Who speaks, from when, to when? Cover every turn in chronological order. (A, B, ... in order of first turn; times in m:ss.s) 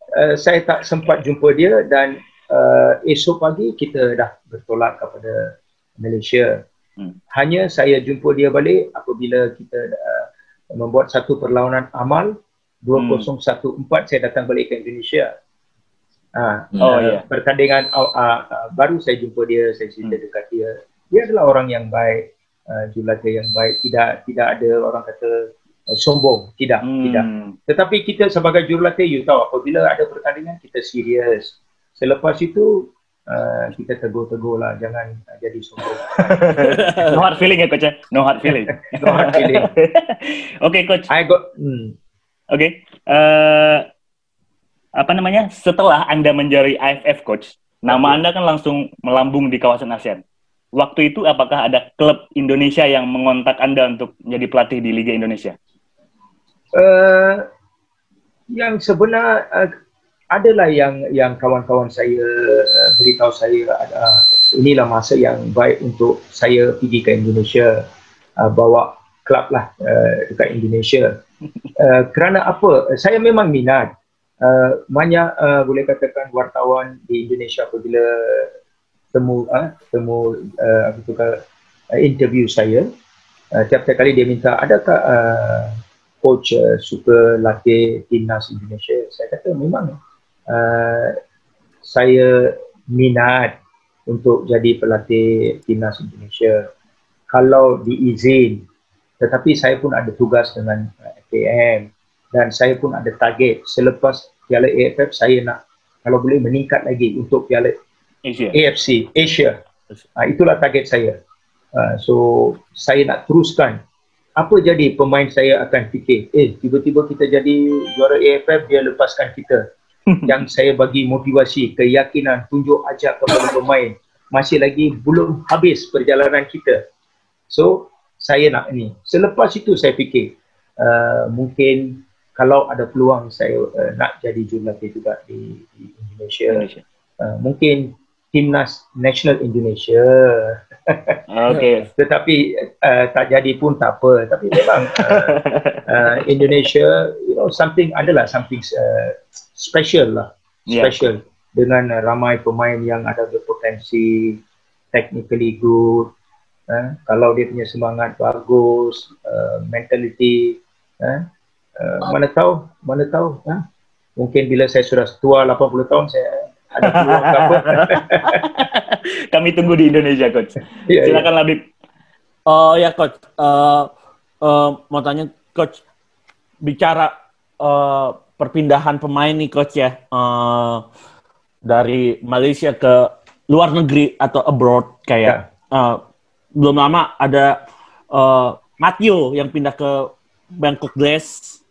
0:00.1-0:06.6 A
0:07.3-0:15.3 A
0:12.9-0:13.3 B
0:16.3-0:37.0 A
0:16.8-0:17.2 B
0:26.8-0:27.6 B
0:36.3-0:41.1 B
0:36.8-0:37.1 C
0:38.9-0:39.7 A
0:41.1-0:41.9 A
0:42.5-0:43.8 B
0:45.0-0:50.2 B
0:47.9-0:48.2 A
0:50.7-0:55.6 B
0:56.7-0:57.5 A
0:58.5-0:59.7 A
1:00.3-1:07.8 A
1:08.4-1:11.2 A
1:11.8-1:18.5 A
1:19.1-1:22.9 A
1:23.5-1:30.0 A
1:30.5-1:31.2 A
1:31.8-1:33.5 A
1:34.1-1:36.7 A
1:37.3-1:38.6 A
1:39.2-1:47.7 A
1:48.2-1:48.6 B
1:48.5-1:49.6 A
1:50.2-1:51.2 A
1:51.7-1:53.8 A
1:54.4-1:59.6 A
2:00.1-2:00.4 B
2:00.2-2:06.8 A
2:07.5-2:16.6 A
2:16.5-2:16.8 B
2:17.2-2:21.2 A
2:21.3-2:21.9 B
2:22.0-2:34.4 A
2:24.6-2:26.3 B
2:30.7-2:30.9 B
2:34.9-2:36.1 A
2:36.7-2:41.2 A
2:41.8-2:43.6 A
2:44.2-2:48.4 A
2:46.9-2:51.6 B
2:50.9-2:51.3 A
2:52.5-2:53.9 C
2:54.4-2:55.8 C
2:56.6-3:00.8 C
3:01.6-3:06.0 C
3:06.6-3:07.6 C
3:08.1-3:11.6 C